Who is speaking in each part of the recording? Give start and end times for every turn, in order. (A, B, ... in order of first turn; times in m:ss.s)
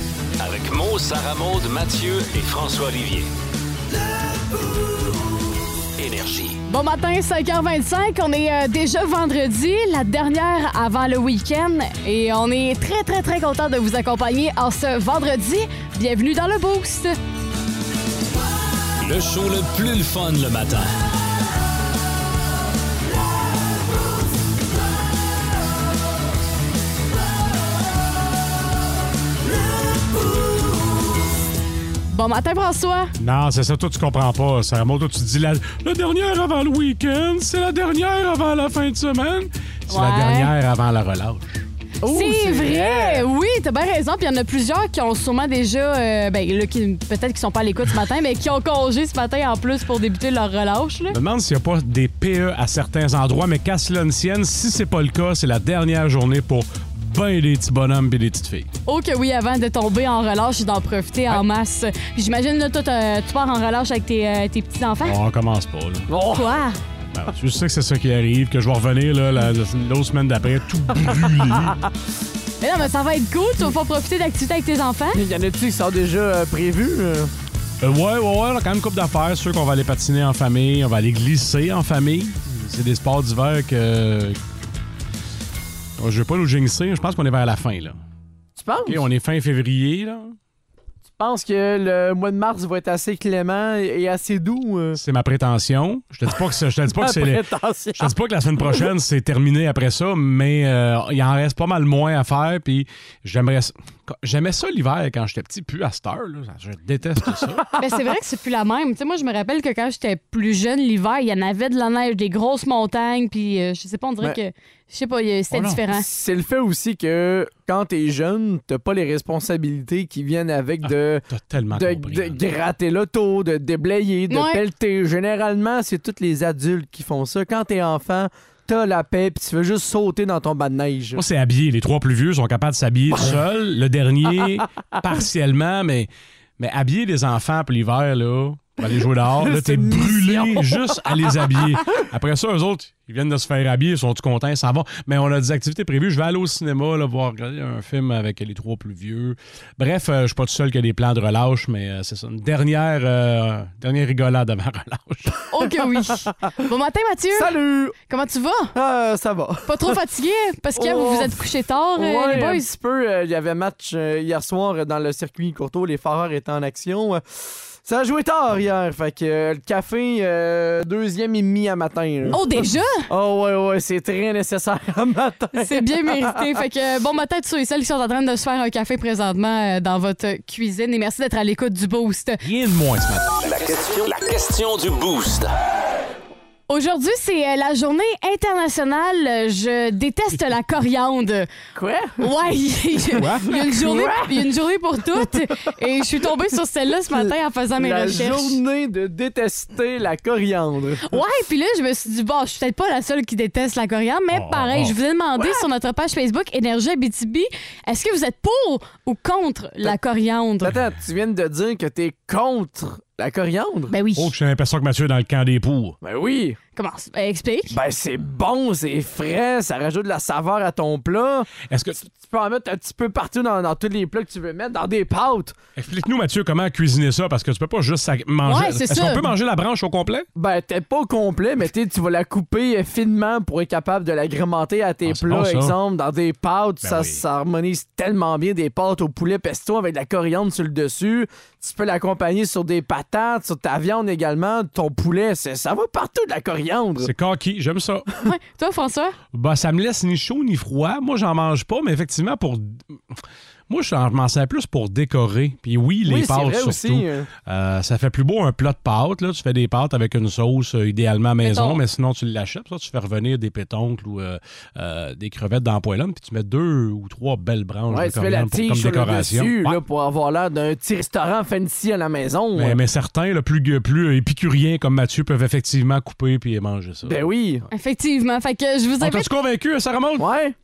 0:00.4-0:03.3 A
0:06.0-0:06.6 A
0:06.7-0:17.1 B
0:19.0-0:20.9 A
0:32.1-0:33.1 B
0:33.2-0:41.6 C
0:39.9-0:40.5 B
0:42.0-0:43.2 D
0:42.0-0:51.2 B
0:51.1-0:58.7 C
0:58.8-1:05.2 B
1:05.0-1:06.1 C
1:06.1-1:06.5 D
1:06.3-1:06.8 B
1:07.1-1:11.8 C
1:12.6-1:15.2 B
1:15.1-1:17.3 D
1:17.8-1:24.4 C
1:26.0-1:28.0 C
1:28.6-1:29.0 D
1:28.8-1:30.3 C
1:31.2-1:35.0 D
1:35.0-1:37.4 C
1:36.9-1:38.1 D
1:38.0-1:47.6 C
1:47.8-1:56.0 B
1:55.5-1:55.8 C
1:55.9-2:11.2 D
2:00.8-2:02.4 C
2:04.3-2:04.6 B
2:11.2-2:35.4 C
2:19.4-2:21.3 D
2:35.5-2:38.7 B
2:37.3-2:37.9 D
2:38.7-2:40.0 D
2:39.7-2:42.7 B
2:40.8-2:47.2 D
2:47.8-2:56.5 D
2:52.3-2:53.1 B
2:55.6-3:02.4 B
3:02.4-3:03.4 C
3:03.4-3:05.5 A
3:06.7-3:11.5 B
3:11.7-3:12.2 D
3:12.2-3:18.6 B
3:13.2-3:13.5 C
3:13.5-3:14.5 D
3:17.1-3:21.0 D
3:21.0-3:30.7 B
3:24.3-3:25.0 C
3:25.4-3:25.6 D
3:30.6-3:33.9 D
3:33.9-3:34.3 B
3:34.2-3:36.0 C
3:36.0-3:36.6 D
3:36.8-3:37.8 B
3:37.7-3:41.5 D
3:41.6-3:42.0 C
3:42.1-3:45.6 D
3:45.8-3:50.3 C
3:48.4-3:49.3 B
3:50.4-4:07.1 D
3:55.0-3:55.8 C
3:56.8-3:57.2 C
4:07.0-4:08.1 C
4:08.2-4:09.2 B
4:09.3-4:12.8 C
4:13.7-4:29.8 C
4:16.0-4:17.3 D
4:21.4-4:21.8 B
4:27.9-4:32.8 D
4:32.5-4:37.3 C
4:37.1-4:37.6 D
4:37.7-4:39.3 B
4:39.0-4:40.3 C
4:40.2-4:40.5 D